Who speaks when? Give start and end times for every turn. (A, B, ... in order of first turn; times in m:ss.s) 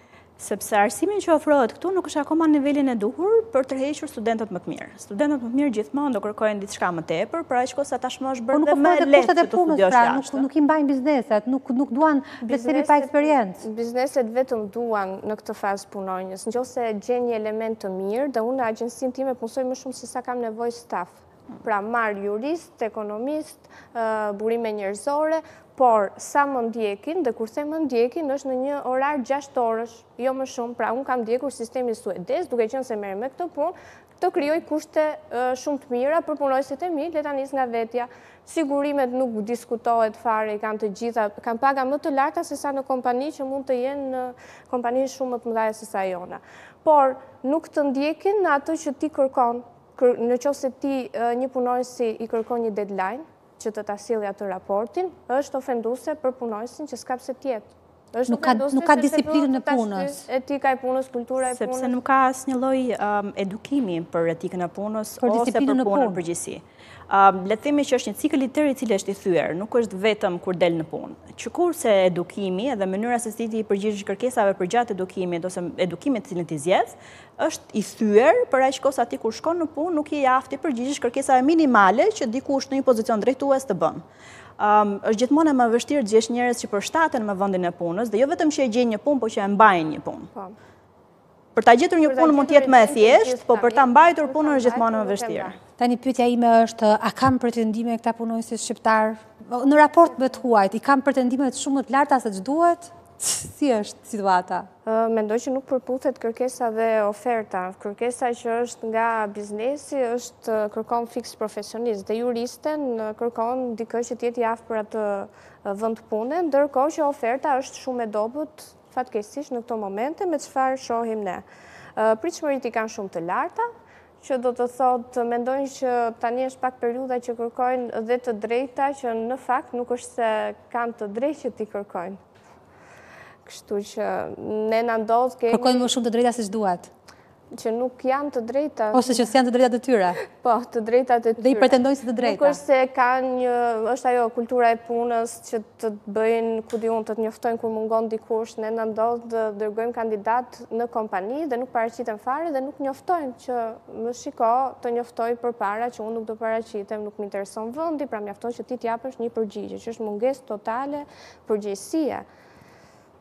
0:00.4-0:10.4 A
0:08.5-0:13.6 B
0:12.4-1:02.0 C
0:58.3-1:00.2 B
1:01.5-1:24.0 A
1:05.2-1:06.2 B
1:24.6-1:30.3 A
1:31.5-1:35.5 A
1:32.0-1:35.6 C
1:35.8-1:44.7 B
1:44.8-2:01.4 C
2:02.0-2:03.7 C
2:04.2-2:12.2 C
2:13.4-2:15.9 C
2:15.5-2:16.9 B
2:17.5-2:19.3 C
2:18.9-2:20.2 B
2:20.2-2:42.2 C
2:21.4-2:22.6 B